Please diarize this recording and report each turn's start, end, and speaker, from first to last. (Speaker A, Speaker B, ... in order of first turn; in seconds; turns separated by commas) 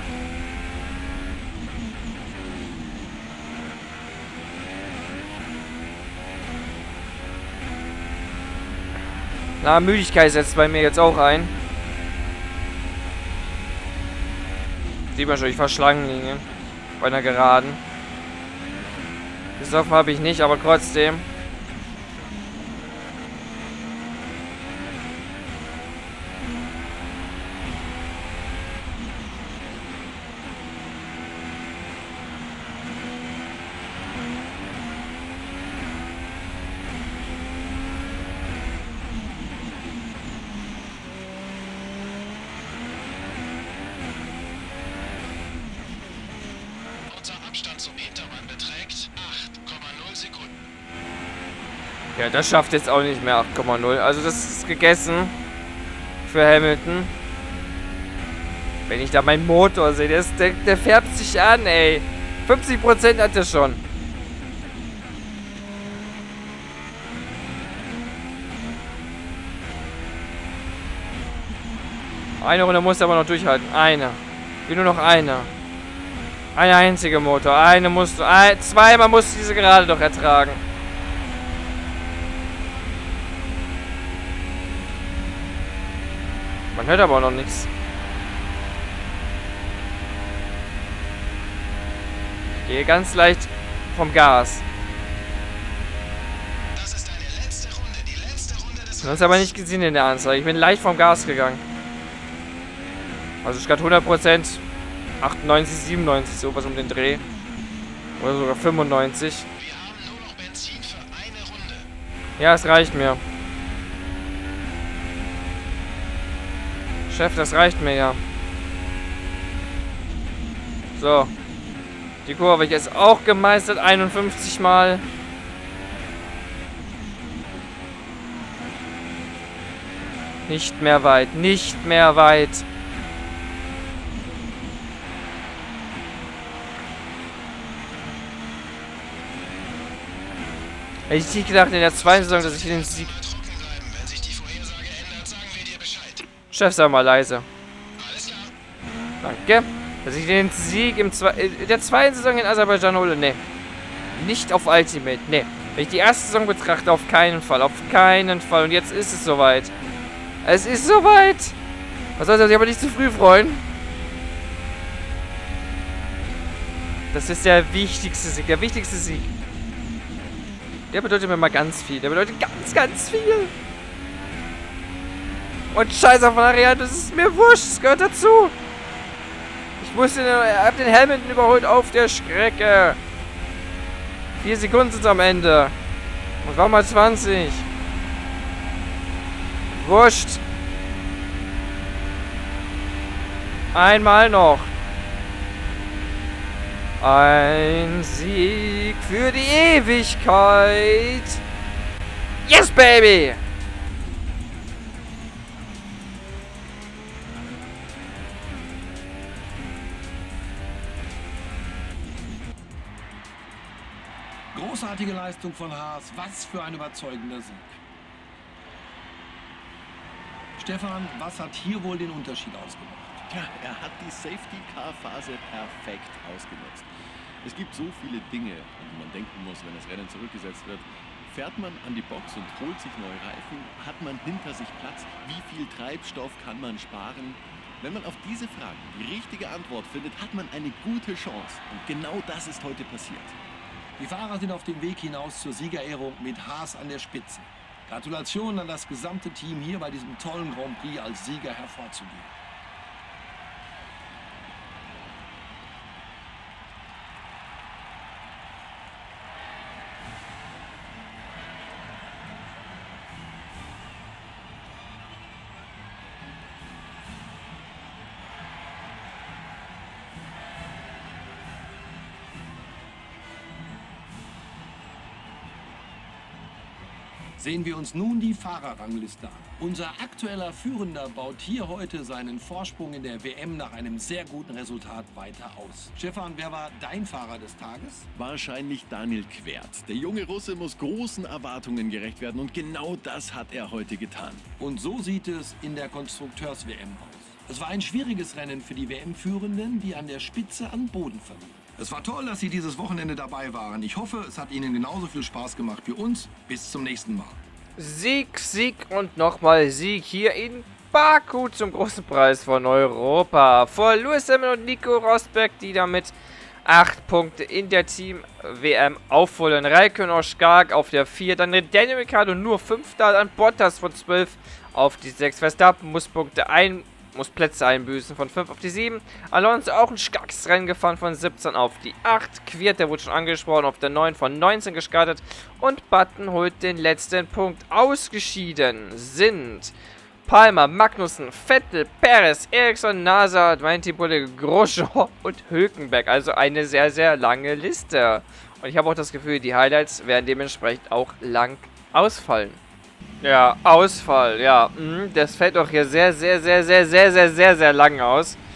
Speaker A: 9.6-11.5, Speaker A: 15.2-16.4, Speaker A: 17.0-17.8, Speaker A: 19.6-21.2, Speaker B: 47.1-50.6, Speaker A: 52.2-55.3, Speaker A: 56.2-57.1, Speaker A: 58.9-63.8, Speaker A: 72.4-75.5, Speaker A: 76.5-80.6, Speaker A: 86.7-87.7, Speaker A: 92.6-94.6, Speaker B: 96.7-99.5, Speaker A: 99.0-101.6, Speaker A: 103.4-104.6, Speaker A: 105.2-107.2, Speaker A: 108.2-109.5, Speaker B: 109.6-111.9, Speaker A: 112.4-113.2, Speaker A: 117.1-118.2, Speaker A: 121.0-121.3, Speaker A: 122.2-125.0, Speaker A: 130.5-132.7, Speaker A: 141.1-143.1, Speaker B: 141.8-146.3, Speaker A: 146.5-147.5, Speaker B: 148.0-148.5, Speaker A: 149.2-153.4, Speaker A: 154.2-159.7, Speaker A: 160.4-161.6, Speaker A: 162.2-163.6, Speaker A: 167.1-169.3, Speaker A: 170.9-173.5, Speaker A: 175.7-178.5, Speaker A: 179.8-183.0, Speaker A: 184.4-185.7, Speaker A: 186.4-187.7, Speaker A: 189.7-190.4, Speaker A: 193.7-194.7, Speaker A: 197.0-201.4, Speaker A: 202.5-203.4, Speaker C: 214.5-217.8, Speaker C: 220.6-223.2, Speaker D: 223.3-226.8, Speaker D: 227.4-243.3, Speaker C: 244.0-252.3, Speaker C: 277.4-288.1, Speaker D: 288.2-294.4, Speaker C: 294.6-307.4, Speaker A: 307.8-316.1, Speaker A: 316.7-339.7, Speaker A: 340.3-352.6, Speaker A: 353.2-358.4